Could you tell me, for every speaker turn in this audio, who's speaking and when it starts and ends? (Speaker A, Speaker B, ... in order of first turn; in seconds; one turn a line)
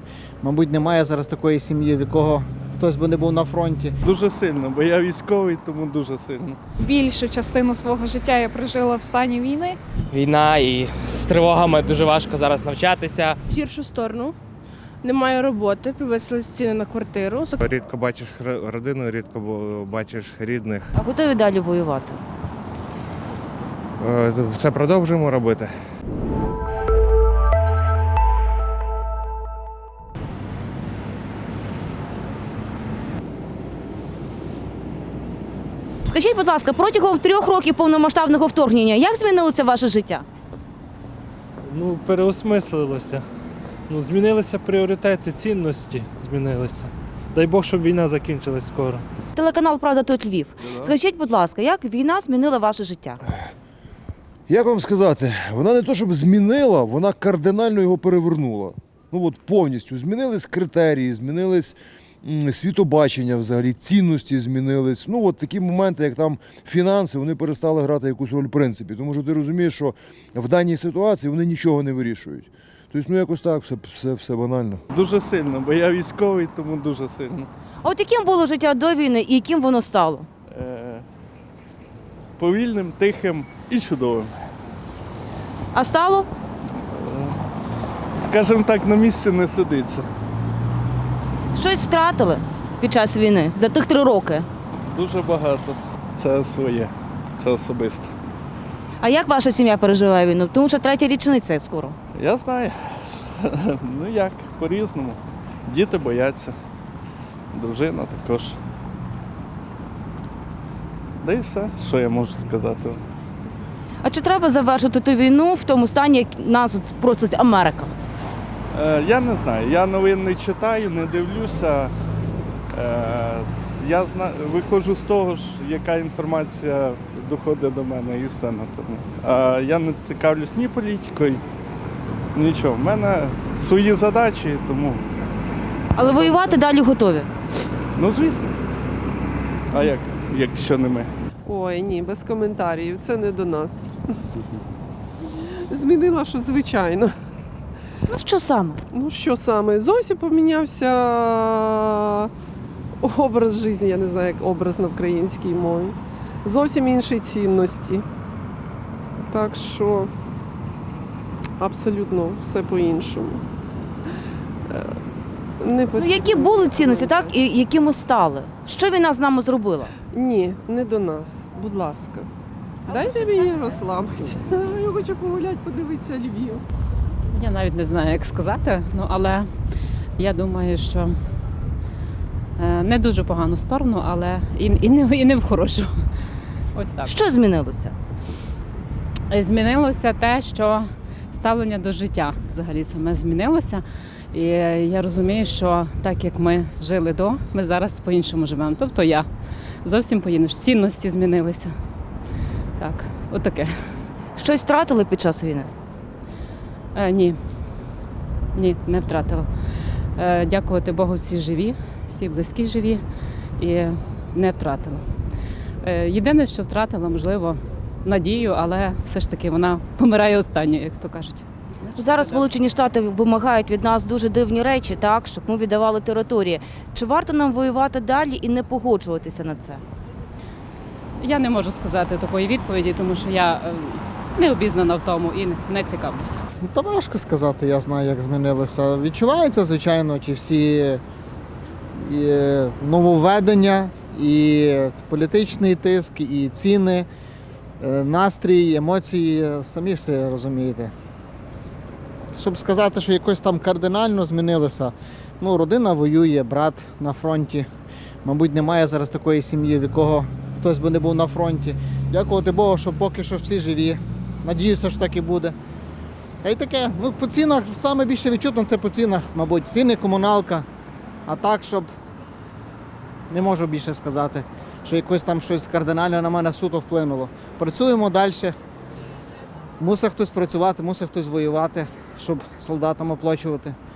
Speaker A: 0.4-3.9
Speaker B: 4.0-6.6
Speaker C: 6.8-9.8
Speaker D: 10.1-13.4
Speaker E: 13.5-14.3
Speaker E: 15.0-17.5
Speaker F: 17.6-20.9
Speaker G: 20.9-22.2
Speaker F: 24.0-25.7
Speaker G: 36.0-40.2
Speaker H: 41.7-43.2
Speaker H: 43.9-49.0
Speaker G: 49.4-53.2
Speaker I: 54.5-74.8
Speaker B: 74.9-77.5
Speaker G: 77.8-80.3
Speaker B: 80.5-81.0
Speaker B: 82.4-84.3
Speaker G: 85.7-86.3
Speaker B: 86.9-87.3
Speaker B: 88.2-90.0
Speaker G: 91.5-94.5
Speaker B: 94.9-98.1
Speaker G: 99.0-102.0
Speaker B: 102.1-106.5
Speaker B: 107.5-108.6
Speaker B: 111.2-113.0
Speaker G: 114.0-117.9
Speaker B: 118.7-121.9
Speaker B: 122.7-131.4
Speaker B: 132.3-135.0
Speaker G: 135.9-137.3
Speaker B: 137.9-138.5
Speaker B: 139.7-141.1
Speaker J: 141.4-144.1
Speaker J: 145.7-147.2
Speaker G: 148.1-148.8
Speaker J: 148.9-152.3
Speaker J: 153.0-158.1
Speaker J: 159.2-160.1
Speaker J: 161.6-163.4
Speaker J: 164.7-165.0
Speaker J: 165.6-167.3
Speaker G: 165.9-169.9
Speaker J: 170.1-172.3
Speaker J: 172.8-176.6
Speaker G: 172.9-173.8
Speaker K: 177.3-179.5
Speaker K: 180.2-181.2
Speaker K: 182.6-185.9
Speaker K: 186.7-187.1
Speaker G: 187.0-187.9
Speaker K: 189.3-199.3
Speaker K: 199.8-201.7
Speaker K: 202.8-203.7
Speaker G: 204.3-205.7
Speaker K: 206.9-207.4
Speaker K: 208.5-209.5
Speaker K: 210.2-213.0
Speaker K: 213.6-215.0
Speaker K: 215.8-222.5
Speaker G: 222.0-229.8
Speaker K: 231.2-236.4
Speaker A: 236.7-241.0
Speaker A: 242.0-247.1
Speaker A: 247.8-250.9
Speaker A: 252.3-257.7
Speaker A: 258.2-265.6
Speaker A: 266.4-270.6
Speaker A: 271.3-271.9
Speaker A: 273.3-278.5
Speaker A: 279.8-283.8